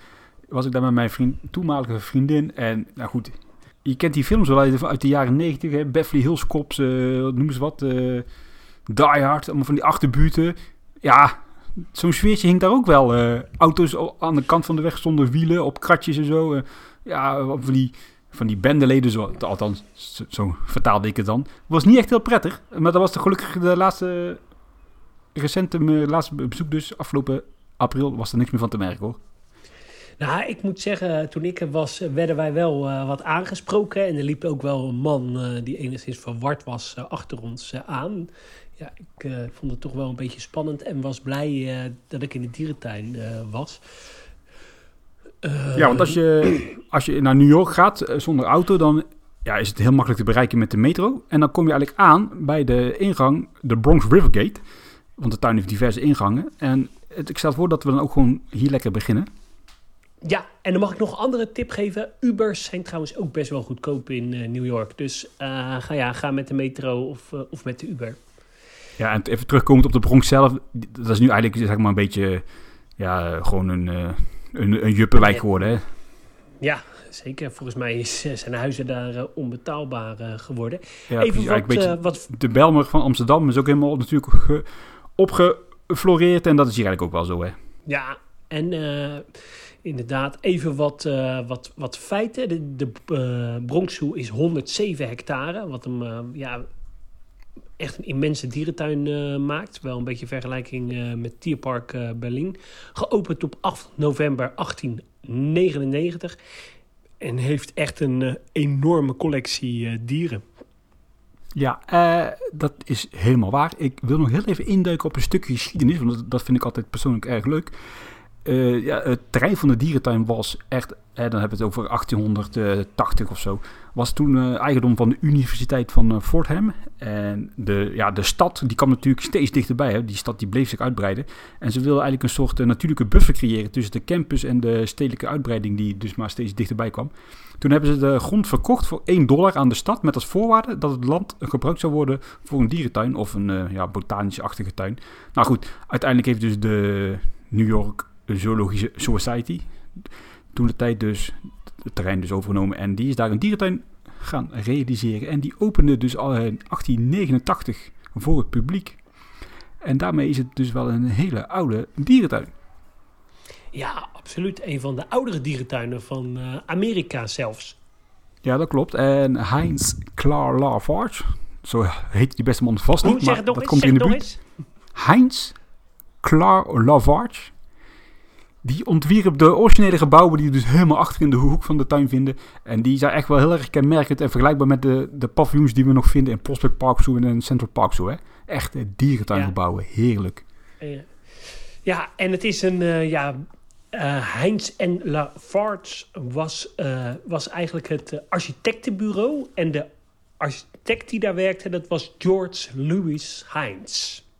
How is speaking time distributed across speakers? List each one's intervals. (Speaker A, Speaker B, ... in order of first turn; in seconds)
Speaker A: 0.5-8.2, 8.9-24.4, 25.3-29.2, 45.7-54.6, 55.2-59.3, 69.0-72.4, 73.0-75.8, 81.1-84.7, 85.2-87.5, 111.5-117.8, 118.4-159.0, 159.8-162.5, 168.4-174.2, 174.9-175.5, 176.2-177.5, 178.6-190.4
Speaker B: 30.2-43.8, 45.4-46.2, 60.2-68.2, 76.6-82.2, 87.9-96.7, 97.8-106.3, 107.2-110.4, 163.7-167.8, 173.0-174.4, 190.8-204.2